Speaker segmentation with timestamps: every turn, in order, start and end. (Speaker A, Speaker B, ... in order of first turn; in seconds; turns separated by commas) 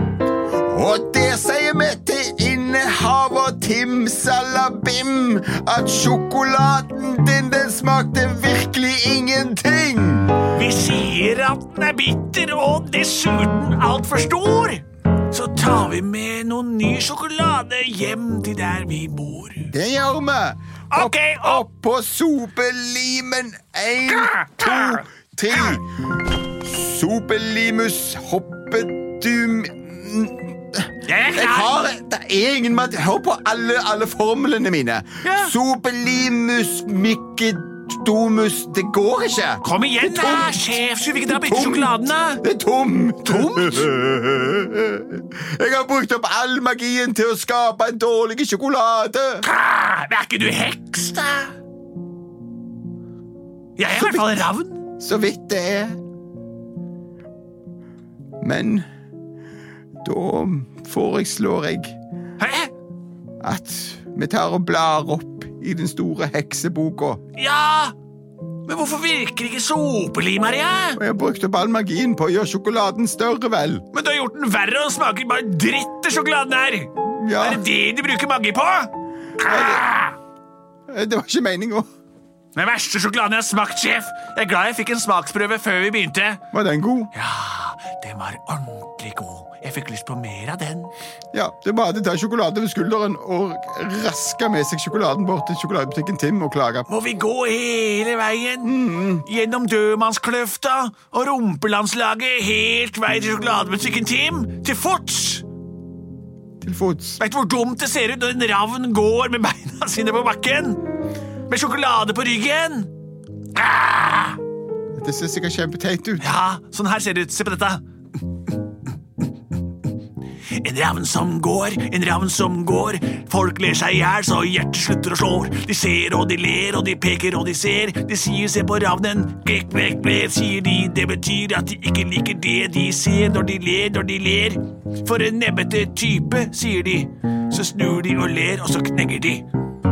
Speaker A: 0.6-10.4, Speaker B: 10.5-19.7, Speaker A: 19.7-25.8, Speaker B: 20.9-21.6, Speaker B: 24.1-25.0, Speaker A: 26.6-49.5, Speaker B: 31.1-31.8, Speaker B: 35.2-35.5, Speaker B: 39.6-42.4, Speaker B: 43.2-43.9, Speaker B: 49.4-51.5, Speaker B: 53.8-54.8, Speaker A: 53.9-54.5, Speaker A: 55.0-56.0, Speaker A: 58.4-58.8, Speaker A: 60.0-62.0, Speaker B: 62.4-62.7, Speaker A: 63.4-67.2, Speaker B: 67.4-67.9, Speaker B: 68.7-71.0, Speaker A: 71.0-73.8, Speaker B: 73.9-80.2, Speaker A: 77.1-77.6, Speaker A: 79.4-79.9, Speaker A: 80.9-81.9, Speaker B: 82.5-86.4, Speaker A: 86.5-87.1, Speaker B: 87.1-90.9, Speaker A: 91.3-96.9, Speaker B: 96.9-105.5, Speaker A: 98.6-99.2, Speaker A: 106.6-107.2, Speaker B: 107.2-110.8, Speaker B: 111.5-112.9, Speaker B: 113.6-114.4, Speaker A: 115.0-116.4, Speaker B: 116.2-117.8, Speaker B: 120.5-139.5